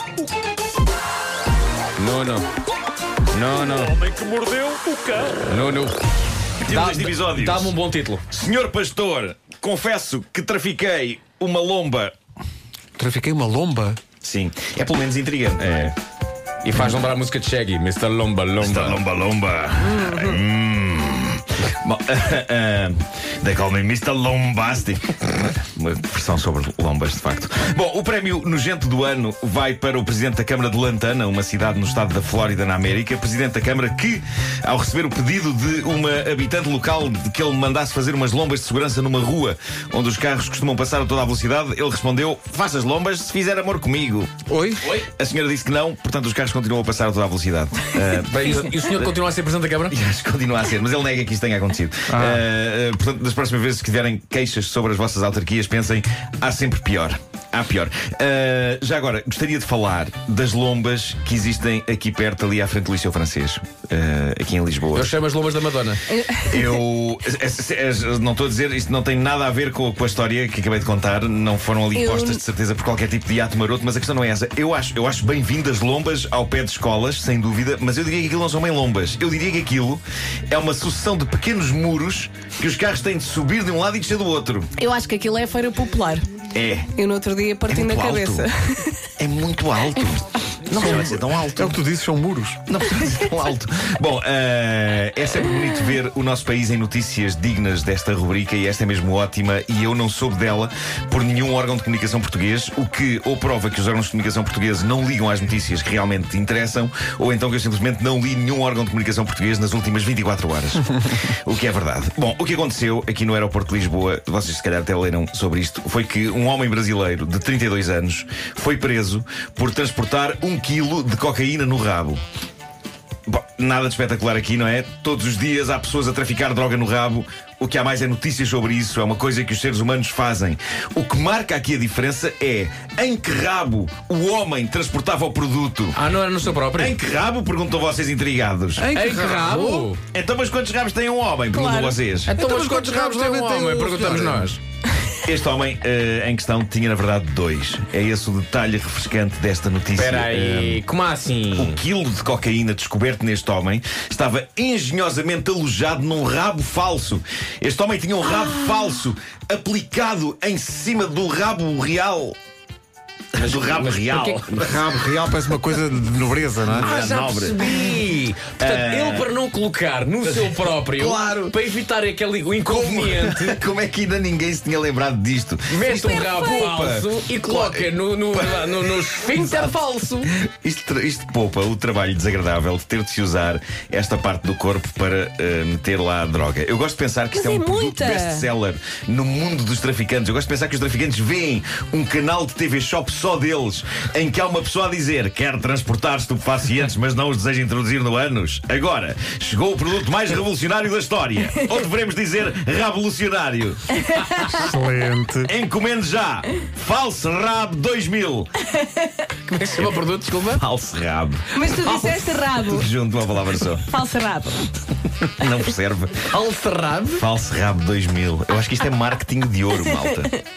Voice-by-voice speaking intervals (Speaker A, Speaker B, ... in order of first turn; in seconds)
Speaker A: 2.0-2.5, 3.3-4.2, 5.3-6.0, 6.7-8.2, 16.6-19.0, 44.8-45.1, 48.2-50.0, 64.9-66.2, 135.9-137.0, 138.9-140.0, 142.3-144.6, 149.9-151.8, 163.4-164.7, 166.7-173.6, 175.7-180.3, 209.4-210.6, 211.7-212.2, 216.3-217.2
Speaker B: 6.6-7.8, 8.3-12.1, 14.1-15.9, 18.6-44.3, 45.0-49.1, 49.9-65.1, 66.5-84.7, 86.5-86.9, 87.7-88.5, 89.2-91.8, 92.7-122.2, 123.3-136.0, 136.8-138.9, 140.1-142.4, 145.2-150.8, 151.6-162.3, 163.3-165.4, 166.7-168.1, 168.6-169.3, 170.2-171.6, 172.6-179.7, 180.4-203.8, 205.4-208.5, 209.8-211.8, 212.5-213.9, 215.2-216.3, 217.2-220.4
Speaker C: 13.0-14.0, 44.5-44.9, 52.1-52.4, 90.7-92.6, 138.8-139.9, 142.4-144.6, 164.5-166.9, 204.6-205.5
Speaker D: 19.8-20.4, 71.9-72.4, 84.8-86.3, 87.0-89.0, 141.5-142.0, 187.3-188.5, 204.2-204.6, 208.8-209.1, 211.5-212.9, 213.8-214.6